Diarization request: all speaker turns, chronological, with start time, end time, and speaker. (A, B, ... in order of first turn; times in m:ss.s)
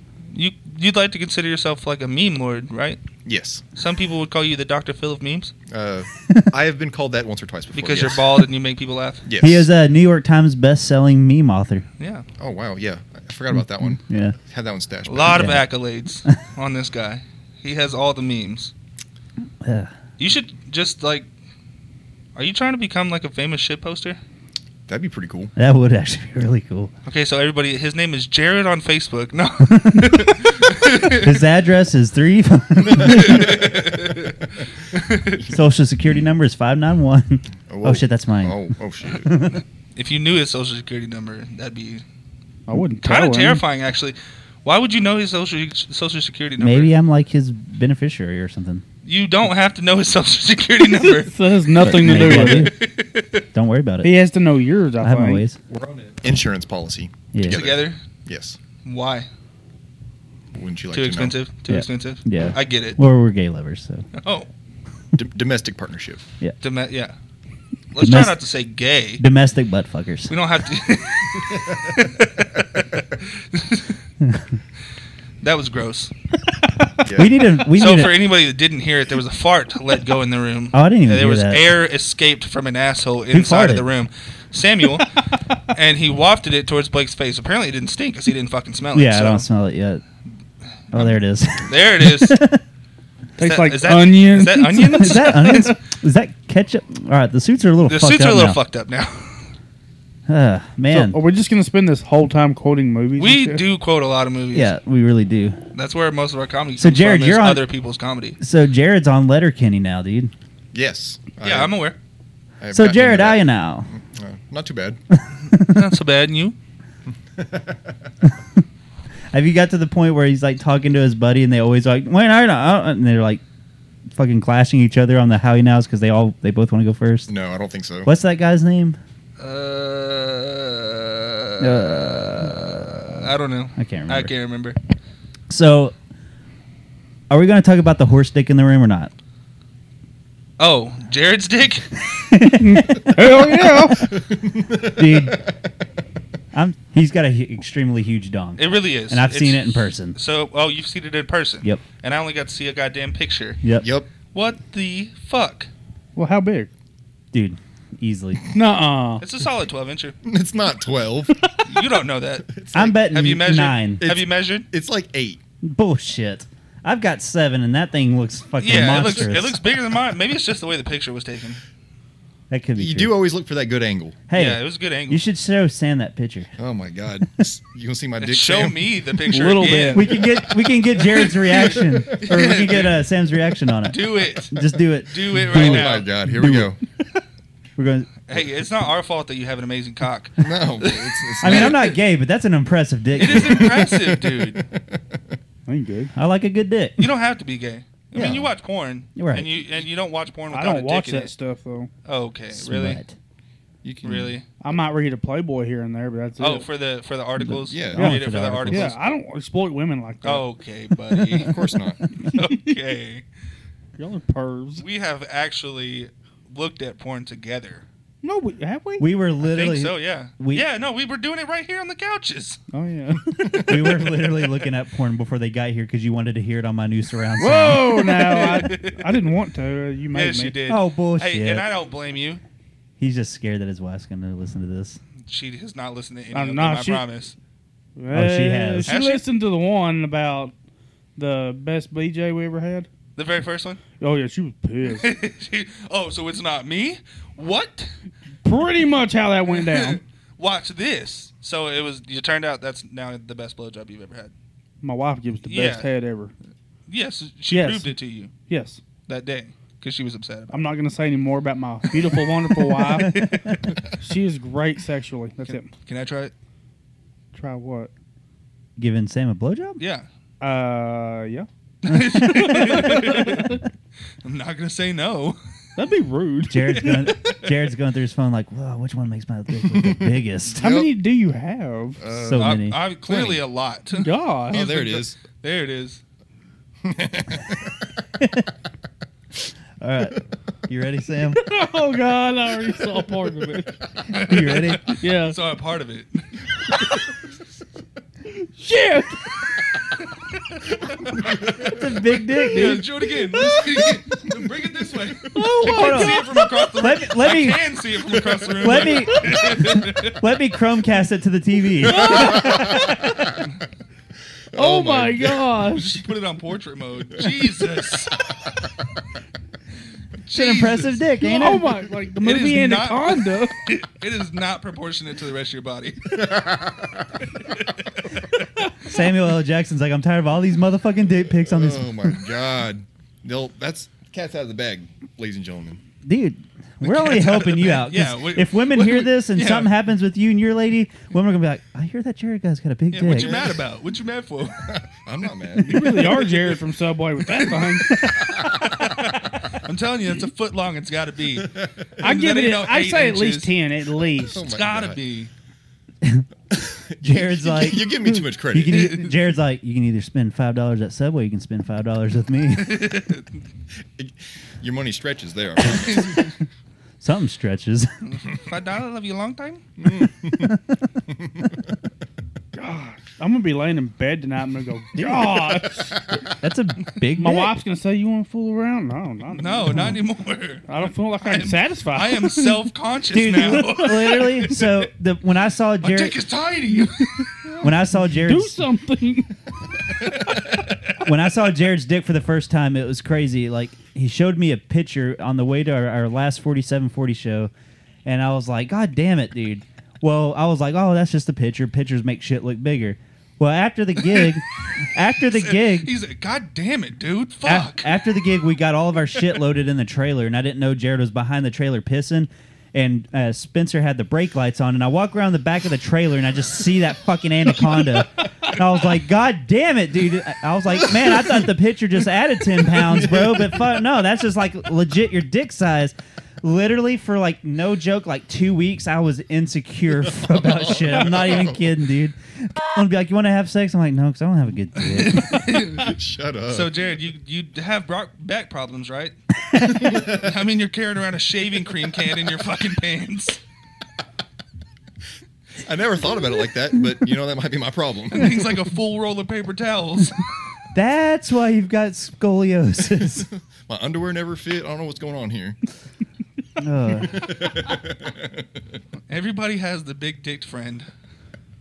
0:00.3-0:03.0 A
0:03.2-0:03.6 B
0:03.8-0:05.5 A
0:05.7-0:08.4 B
0:07.7-0:09.2 A
0:09.3-0:09.7 B
0:09.4-0:11.9 C
0:12.0-0:12.3 A
0:12.4-0:15.5 B
0:13.9-0:14.4 C
0:15.1-0:18.7 A
0:15.3-0:15.6 C
0:19.6-0:19.9 C
0:20.2-0:21.3 A
0:22.4-0:24.2 A
0:24.9-0:25.5 B
0:25.6-0:26.9 C
0:27.1-0:31.3 A
0:29.8-0:30.5 C
0:31.0-0:33.5 C
0:32.9-0:34.4 A
0:34.9-0:35.4 A
0:35.5-0:38.7 C
0:37.7-0:39.4 B
0:39.2-0:39.6 C
0:40.0-0:42.0 A
0:42.7-0:43.6 D
0:43.0-0:46.9 A
0:46.6-0:48.8 C
0:49.0-0:53.4 A
0:51.2-0:52.7 D
0:51.8-0:52.8 C
0:53.5-0:54.2 C
0:54.0-0:55.4 D
0:55.0-0:55.6 C
0:55.7-0:58.6 B
0:57.3-0:57.6 C
0:57.5-0:58.0 A
0:58.8-0:59.3 A
1:00.5-1:01.4 B
1:00.9-1:03.0 A
1:01.7-1:04.1 C
1:04.2-1:04.5 A
1:05.2-1:06.2 B
1:06.6-1:07.2 A
1:07.9-1:09.2 A
1:08.0-1:08.4 C
1:09.2-1:10.3 C
1:10.3-1:14.0 A
1:15.4-1:16.1 A
1:17.0-1:17.5 B
1:17.1-1:18.2 C
1:17.7-1:25.1 A
1:20.7-1:21.6 C
1:23.3-1:23.9 C
1:25.7-1:29.5 A
1:28.9-1:30.0 C
1:30.9-1:32.6 C
1:31.7-1:32.4 A
1:33.4-1:35.8 D
1:33.4-1:35.7 A
1:35.0-1:38.6 C
1:37.9-1:39.4 A
1:40.3-1:41.2 C
1:40.9-1:43.6 D
1:43.2-1:44.7 A
1:44.5-1:45.6 C
1:45.7-1:48.4 A
1:46.8-1:47.6 C
1:48.4-1:50.3 C
1:50.7-1:51.8 B
1:51.4-1:52.0 A
1:52.6-1:55.0 B
1:52.7-1:53.9 C
1:55.5-1:55.8 C
1:55.6-1:56.6 A
1:57.4-1:57.9 B
1:59.3-2:03.4 C
2:04.1-2:07.3 C
2:07.3-2:08.1 B
2:08.0-2:09.0 C
2:09.4-2:14.8 A
2:11.6-2:14.3 C
2:15.5-2:15.9 C
2:17.3-2:19.1 C
2:20.6-2:21.9 A
2:22.1-2:24.0 C
2:22.6-2:24.1 D
2:24.1-2:25.5 B
2:24.8-2:25.4 C
2:26.5-2:30.2 C
2:28.6-2:33.6 A
2:33.6-2:33.9 C
2:33.8-2:34.1 B
2:34.3-2:35.7 A
2:36.2-2:36.7 D
2:37.3-2:38.4 C
2:38.5-2:39.2 D
2:39.2-2:40.2 A
2:40.2-2:41.4 B
2:41.7-2:44.7 A
2:42.6-2:43.0 B
2:42.7-2:44.0 C
2:44.0-2:45.4 B
2:45.6-2:49.6 C
2:48.6-2:51.6 A
2:52.5-2:53.2 C
2:52.8-2:54.2 B
2:54.3-2:56.6 C
2:54.3-2:55.2 A
2:56.6-2:59.2 B
2:58.2-3:00.5 A
2:59.3-3:00.1 D
2:59.9-3:04.0 C
3:01.2-3:03.0 A
3:03.9-3:06.1 A
3:04.5-3:06.8 C
3:05.4-3:06.8 B
3:07.8-3:08.1 C
3:08.3-3:11.9 A
3:10.4-3:11.9 B
3:11.4-3:13.8 C
3:13.2-3:14.7 A
3:13.2-3:15.2 B
3:15.7-3:16.1 D
3:16.1-3:17.1 C
3:17.0-3:21.3 A
3:18.2-3:18.5 C
3:18.2-3:18.5 B
3:19.2-3:19.5 C
3:20.5-3:21.9 D
3:22.0-3:23.0 A
3:22.5-3:23.2 C
3:23.8-3:24.4 B
3:24.0-3:24.5 A
3:24.6-3:26.7 D
3:26.4-3:29.0 A
3:27.4-3:28.9 C
3:27.6-3:28.1 B
3:28.0-3:30.5 D
3:30.2-3:31.6 A
3:31.1-3:31.6 D
3:31.4-3:32.0 B
3:32.2-3:33.2 A
3:34.0-3:34.8 D
3:34.8-3:37.8 A
3:38.2-3:39.1 D
3:39.0-3:40.6 C
3:39.4-3:42.6 A
3:42.7-3:43.6 D
3:43.4-3:44.2 A
3:43.6-3:48.1 C
3:47.4-3:50.6 D
3:48.0-3:49.4 A
3:50.1-3:52.4 A
3:50.7-3:51.6 C
3:53.0-3:55.0 C
3:55.3-3:57.4 A
3:56.3-3:57.0 D
3:58.0-4:00.5 D
3:58.1-3:58.9 C
3:58.9-3:59.2 A
4:01.2-4:02.9 D
4:03.2-4:03.8 A
4:04.0-4:05.1 D
4:04.8-4:07.9 A
4:08.4-4:10.0 D
4:09.5-4:14.3 A
4:14.8-4:16.3 D
4:15.4-4:15.9 A
4:16.9-4:18.3 A
4:17.5-4:18.8 D
4:19.1-4:20.7 A
4:20.5-4:23.3 D
4:22.0-4:23.3 A
4:23.0-4:23.4 C
4:24.0-4:25.7 D
4:25.8-4:26.3 A
4:27.3-4:27.9 D
4:28.8-4:29.8 C
4:29.8-4:30.1 A
4:30.4-4:31.5 D
4:31.8-4:33.6 A
4:31.9-4:33.0 C
4:32.2-4:33.6 D
4:34.2-4:35.4 A
4:35.8-4:37.2 D
4:36.5-4:40.6 C
4:37.1-4:37.4 A
4:39.7-4:41.0 B
4:40.6-4:42.0 D
4:42.0-4:42.6 B
4:42.1-4:43.4 C
4:42.3-4:46.0 A
4:44.0-4:44.7 D
4:44.5-4:45.2 B
4:46.8-4:47.9 B
4:48.2-4:48.5 C
4:49.8-4:51.4 C
4:51.3-4:53.8 D
4:54.1-4:55.0 C
4:54.1-4:56.3 A
4:55.0-4:55.4 D
4:56.7-4:57.0 D
4:58.4-4:59.4 D
5:01.1-5:01.7 B
5:01.6-5:02.8 C
5:02.4-5:03.9 D
5:02.4-5:10.2 A
5:05.3-5:06.7 D
5:05.5-5:07.6 C
5:08.6-5:09.2 C
5:10.2-5:12.6 C
5:11.8-5:13.4 B
5:11.9-5:13.3 D
5:14.5-5:15.5 B
5:14.5-5:16.0 D
5:15.7-5:18.2 A
5:20.2-5:21.0 A
5:20.3-5:21.7 C
5:21.2-5:23.7 D
5:22.2-5:26.4 A
5:26.1-5:27.2 B
5:27.3-5:28.7 A
5:28.8-5:31.9 C
5:31.4-5:35.8 B
5:36.0-5:43.3 C
5:36.8-5:39.7 A
5:42.9-5:44.7 A
5:43.1-5:43.6 B
5:44.6-5:46.3 B
5:45.6-5:48.0 D
5:45.7-5:46.6 A
5:47.3-5:48.0 A
5:48.0-5:49.4 B
5:48.6-5:53.5 A
5:51.4-5:51.8 B
5:52.0-5:54.4 D
5:54.2-5:55.0 B
5:54.3-5:55.3 A
5:56.7-5:59.0 B
5:57.0-6:02.8 C
5:58.7-5:59.1 A
6:02.6-6:03.3 A
6:04.0-6:06.3 B
6:05.9-6:06.2 A
6:07.0-6:07.9 C
6:08.0-6:09.6 A
6:09.8-6:11.7 B
6:12.5-6:16.0 D
6:15.0-6:15.2 C
6:16.4-6:17.5 C
6:17.2-6:20.0 D
6:19.3-6:24.9 A
6:20.7-6:22.6 D
6:23.1-6:26.2 C
6:23.4-6:24.2 D
6:25.8-6:27.4 A
6:27.4-6:29.4 D
6:27.6-6:28.6 C
6:29.9-6:30.6 D
6:30.1-6:31.0 A
6:31.0-6:37.5 C
6:38.1-6:45.9 C
6:45.2-6:48.0 A
6:47.5-7:15.5 C
7:02.7-7:03.8 B
7:10.0-7:11.8 B
7:14.8-7:15.9 A
7:15.6-7:16.8 B
7:16.5-7:23.4 A
7:19.5-7:19.9 C
7:19.8-7:20.3 B
7:25.6-7:28.5 B
7:28.1-7:30.3 A
7:30.7-7:33.3 C
7:33.7-7:35.6 B
7:36.6-7:37.3 C
7:37.0-7:38.6 B
7:39.1-7:40.9 A